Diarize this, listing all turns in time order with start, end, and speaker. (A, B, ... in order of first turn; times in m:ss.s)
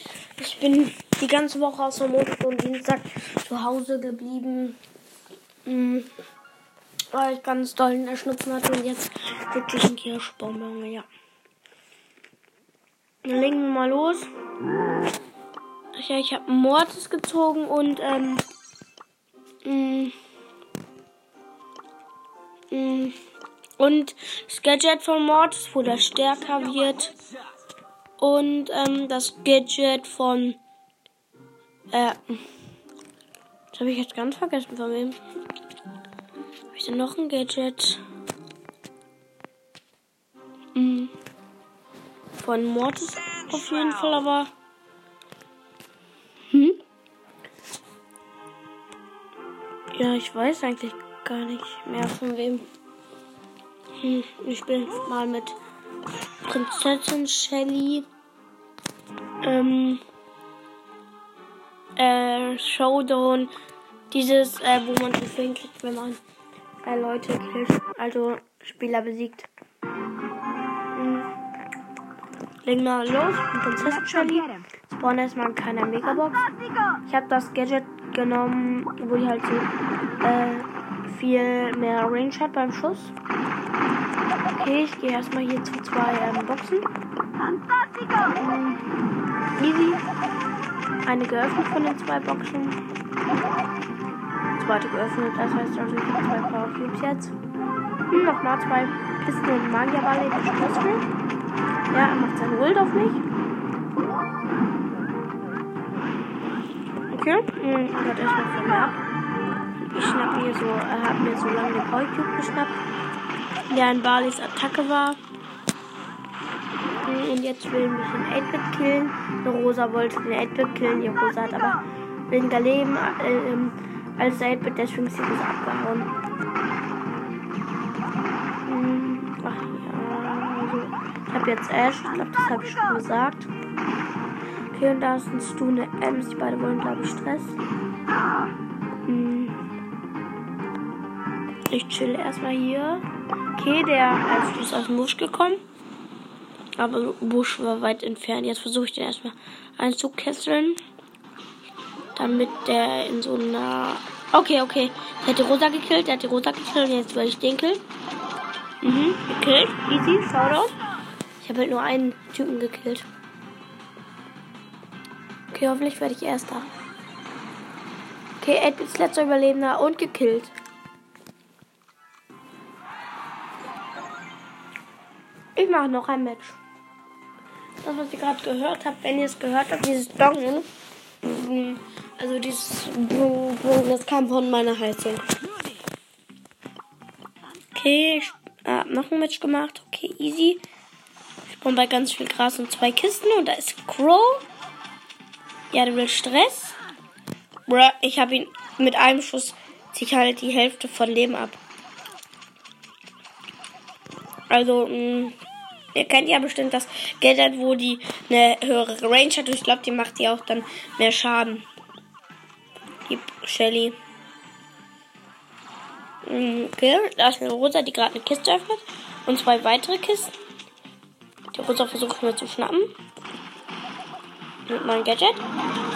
0:00.4-0:04.8 A
0:05.6-0:06.1 A
0:07.1-0:11.1 A
0:13.2-0:14.3 A
0:16.0-0:18.4 A
0:19.6-0:20.1 A
0:22.7-0:23.2 A
0:23.8-0:27.1 A
0:28.2-0:30.6 A
0:31.9-0:32.4 A
0:33.7-0:35.2 A
0:36.7-0:38.0 A
0:40.8-0:41.1 A
0:42.4-0:44.5 A
0:46.5-0:46.8 A
0:50.0-0:52.7 A
0:54.0-0:55.6 A
0:56.4-0:58.1 A
0:59.4-1:00.0 A
1:02.0-1:03.5 A
1:04.1-1:06.2 A
1:06.8-1:09.5 A
1:10.9-1:11.3 A
1:12.6-1:16.5 A
1:17.1-1:19.7 A
1:20.2-1:23.1 A
1:24.5-1:26.9 A
1:28.3-1:28.9 A
1:29.6-1:30.0 A
1:31.0-1:32.8 A
1:34.5-1:37.4 A
1:38.1-1:41.1 A
1:41.9-1:43.2 A
1:47.1-1:49.0 A
1:49.8-1:52.8 A
1:53.7-1:55.2 A
1:57.0-2:06.1 A
2:08.7-2:13.5 A
2:14.7-2:17.7 A
2:19.0-2:19.6 A
2:21.7-2:25.6 A
2:26.8-2:30.8 A
2:32.2-2:37.8 A
2:38.8-2:40.8 A
2:41.4-2:43.1 A
2:45.5-2:46.7 A
2:48.4-2:50.5 A
2:55.6-2:56.6 A
2:57.8-3:00.7 A
3:01.2-3:05.3 A
3:07.7-3:10.6 A
3:11.5-3:14.4 A
3:15.7-3:16.8 A
3:17.7-3:21.6 A
3:24.5-3:25.4 A
3:25.9-3:31.7 A
3:33.1-3:34.0 A
3:36.2-3:40.3 A
3:41.5-3:42.9 A
3:44.7-3:45.4 A